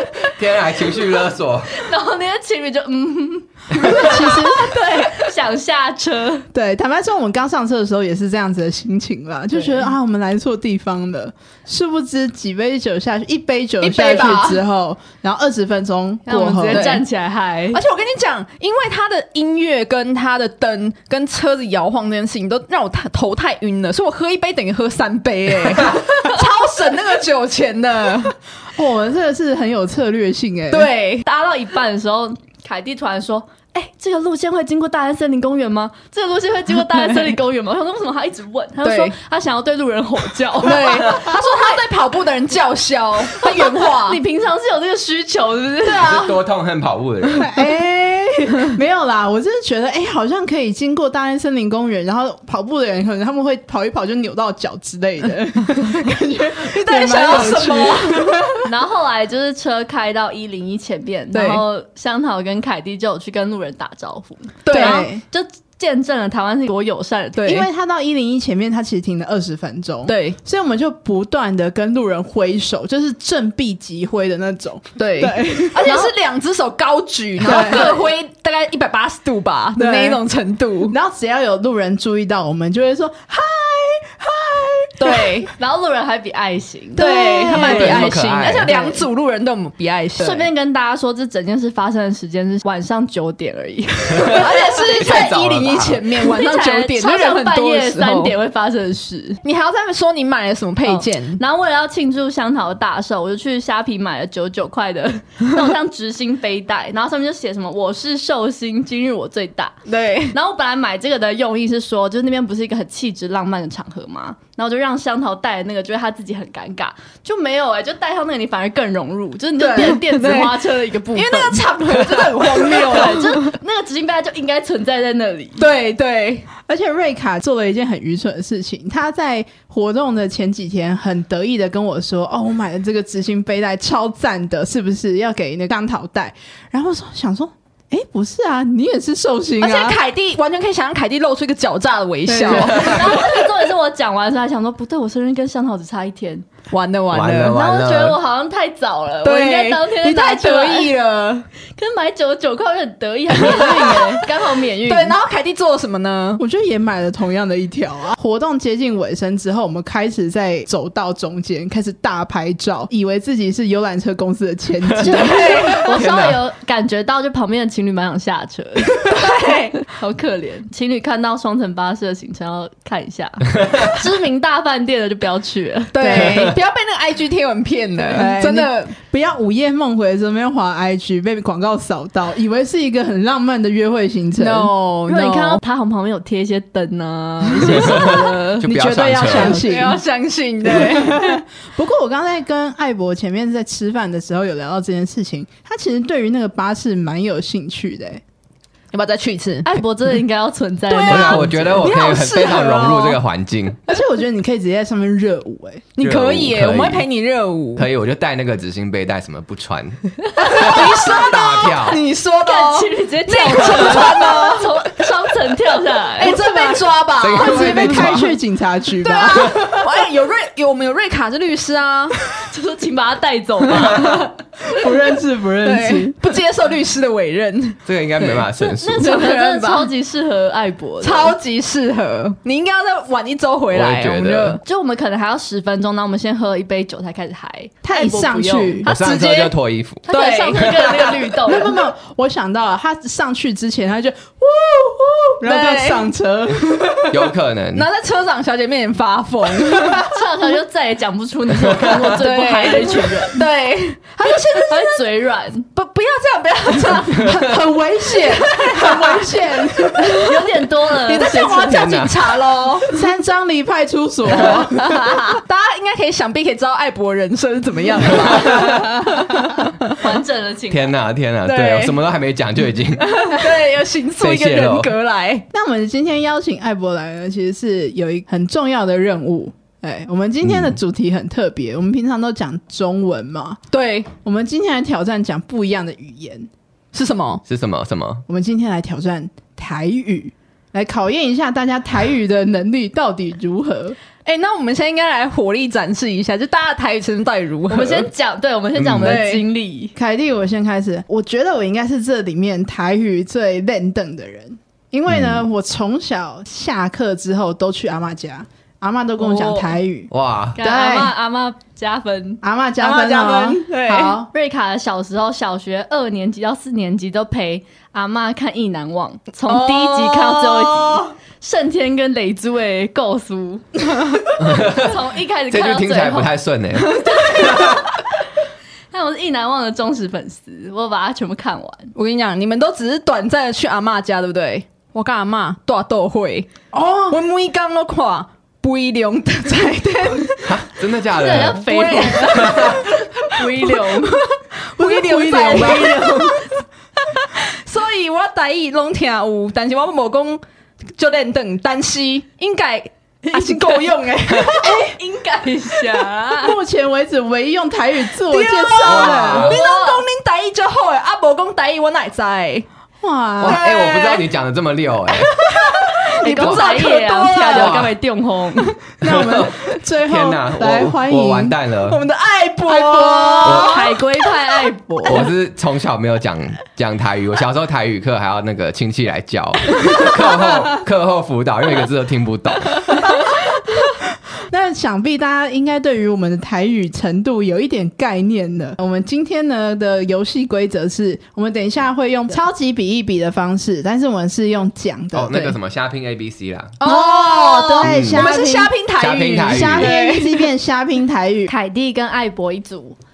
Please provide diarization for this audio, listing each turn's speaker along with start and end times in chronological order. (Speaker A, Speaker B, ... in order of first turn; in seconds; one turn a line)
Speaker A: 0.2-1.8
Speaker B: 1.7-6.5
Speaker A: 3.8-4.2
Speaker C: 3.9-4.8
Speaker D: 4.6-5.2
Speaker C: 6.5-17.0
Speaker D: 13.8-14.6
Speaker B: 16.3-17.8
Speaker D: 16.7-17.0
Speaker D: 17.7-28.4
Speaker C: 28.7-30.9
Speaker D: 30.7-31.2
Speaker B: 31.2-41.6
Speaker D: 38.8-39.2
Speaker D: 40.6-44.2
Speaker B: 43.3-46.3
Speaker C: 45.8-46.4
Speaker A: 46.0-47.5
Speaker C: 47.3-58.6
Speaker D: 56.6-58.6
Speaker B: 58.6-67.6
Speaker D: 61.3-61.6
Speaker D: 64.7-65.1
Speaker C: 64.7-65.2
Speaker D: 67.4-67.7
Speaker C: 67.5-75.9
Speaker D: 70.1-70.4
Speaker D: 75.0-81.0
Speaker B: 75.8-76.1
Speaker C: 77.4-77.9
Speaker B: 77.5-78.1
Speaker C: 79.8-80.2
Speaker C: 80.9-85.4
Speaker D: 85.0-85.5
Speaker B: 85.6-87.6
Speaker C: 87.0-88.1
Speaker D: 87.0-90.5
Speaker A: 87.5-88.7
Speaker B: 88.7-89.0
Speaker B: 90.2-94.9
Speaker A: 94.1-96.0
Speaker D: 94.3-98.3
Speaker B: 96.2-99.4
Speaker D: 99.4-101.4
Speaker B: 100.9-109.8
Speaker D: 109.9-110.4
Speaker B: 110.3-121.7
Speaker D: 119.6-120.6
Speaker D: 121.1-123.5
Speaker B: 122.5-125.6
Speaker D: 125.6-126.5
Speaker C: 126.7-140.0
Speaker D: 139.6-143.1
Speaker C: 142.3-143.1
Speaker B: 142.5-146.5
Speaker D: 146.7-147.6
Speaker A: 147.1-148.2
Speaker B: 147.5-150.9
Speaker D: 149.2-151.5
Speaker B: 151.8-155.2
Speaker D: 153.4-154.3
Speaker D: 154.8-156.4
Speaker C: 156.4-165.8
Speaker A: 164.9-166.4
Speaker D: 165.1-165.9
Speaker B: 165.7-176.3
Speaker D: 169.1-169.8
Speaker D: 175.9-178.9
Speaker C: 176.0-176.4
Speaker A: 176.3-176.5
Speaker C: 178.1-184.7
Speaker D: 184.4-185.6
Speaker B: 185.1-188.7
Speaker D: 187.6-188.2
Speaker A: 187.8-189.6
Speaker C: 188.6-190.0
Speaker D: 189.2-191.4
Speaker C: 190.6-198.2
Speaker D: 198.9-199.7
Speaker B: 199.7-201.9
Speaker D: 201.0-203.2
Speaker A: 201.1-203.8
Speaker C: 203.9-205.9
Speaker D: 206.0-207.9
Speaker A: 206.0-207.1
Speaker A: 207.8-212.0
Speaker D: 210.4-214.8
Speaker B: 212.4-216.4
Speaker D: 216.2-218.2
Speaker C: 216.2-219.9
Speaker A: 217.2-218.3
Speaker D: 219.1-222.2
Speaker B: 222.4-224.3
Speaker A: 223.7-224.3
Speaker C: 224.7-226.4
Speaker D: 225.6-229.9
Speaker A: 227.9-229.1
Speaker B: 228.8-231.4
Speaker D: 231.0-234.6
Speaker A: 233.7-234.6
Speaker B: 234.6-238.8
Speaker C: 237.8-238.9
Speaker D: 238.8-241.1
Speaker A: 238.9-241.1
Speaker B: 240.1-241.8
Speaker C: 241.5-247.2
Speaker D: 245.4-246.1
Speaker A: 247.1-247.9
Speaker D: 247.7-250.0
Speaker B: 249.7-253.4
Speaker A: 251.6-252.1
Speaker D: 252.0-255.1
Speaker B: 254.3-255.7
Speaker D: 255.7-260.4
Speaker C: 257.1-260.3
Speaker B: 260.1-261.9
Speaker D: 261.1-262.9
Speaker C: 261.1-261.7
Speaker A: 261.6-262.3
Speaker C: 262.9-265.1
Speaker D: 264.3-269.8
Speaker A: 268.3-268.9
Speaker B: 269.9-270.9
Speaker A: 270.7-273.5
Speaker D: 271.4-272.0
Speaker D: 273.0-275.5
Speaker A: 274.2-274.9
Speaker C: 275.5-283.6
Speaker A: 280.4-280.8
Speaker D: 283.7-284.1
Speaker C: 284.2-286.5
Speaker D: 286.9-287.4
Speaker A: 287.5-288.2
Speaker C: 288.3-294.0
Speaker D: 294.2-298.1
Speaker B: 297.7-299.9
Speaker A: 298.8-299.2
Speaker D: 299.0-299.4
Speaker C: 300.0-311.1
Speaker A: 305.1-305.4
Speaker D: 309.2-309.8
Speaker A: 310.1-310.6
Speaker B: 310.6-312.4
Speaker C: 312.4-314.3
Speaker D: 312.8-314.2
Speaker B: 314.3-323.8
Speaker D: 319.5-321.1
Speaker A: 324.4-327.8
Speaker B: 324.5-326.3
Speaker B: 327.0-327.9
Speaker B: 328.9-331.9
Speaker D: 331.9-336.5
Speaker C: 336.7-337.2
Speaker D: 337.1-340.6
Speaker A: 340.4-341.7
Speaker B: 341.2-344.2
Speaker D: 341.2-342.8
Speaker A: 342.2-342.9
Speaker D: 343.4-346.4
Speaker C: 344.7-346.2
Speaker B: 345.5-346.5
Speaker D: 347.1-350.4
Speaker D: 351.0-354.8
Speaker B: 353.3-353.8
Speaker C: 354.6-355.0
Speaker B: 354.6-356.6
Speaker C: 356.3-359.5
Speaker D: 358.2-362.7
Speaker A: 358.8-359.6
Speaker B: 359.4-360.1
Speaker C: 363.0-363.6
Speaker A: 363.4-365.3
Speaker D: 363.4-364.3
Speaker D: 365.1-367.9
Speaker B: 366.2-368.8
Speaker A: 366.4-366.7
Speaker A: 367.5-367.9
Speaker C: 369.0-371.6
Speaker A: 369.0-372.0
Speaker D: 371.9-374.0
Speaker C: 372.7-373.8
Speaker A: 373.4-373.8
Speaker B: 373.6-375.3
Speaker A: 375.1-383.1
Speaker C: 384.5-395.4
Speaker A: 395.1-396.8
Speaker D: 396.8-400.5
Speaker C: 396.8-398.8
Speaker A: 397.8-398.3
Speaker A: 399.0-399.9
Speaker C: 399.5-401.5
Speaker B: 401.5-403.0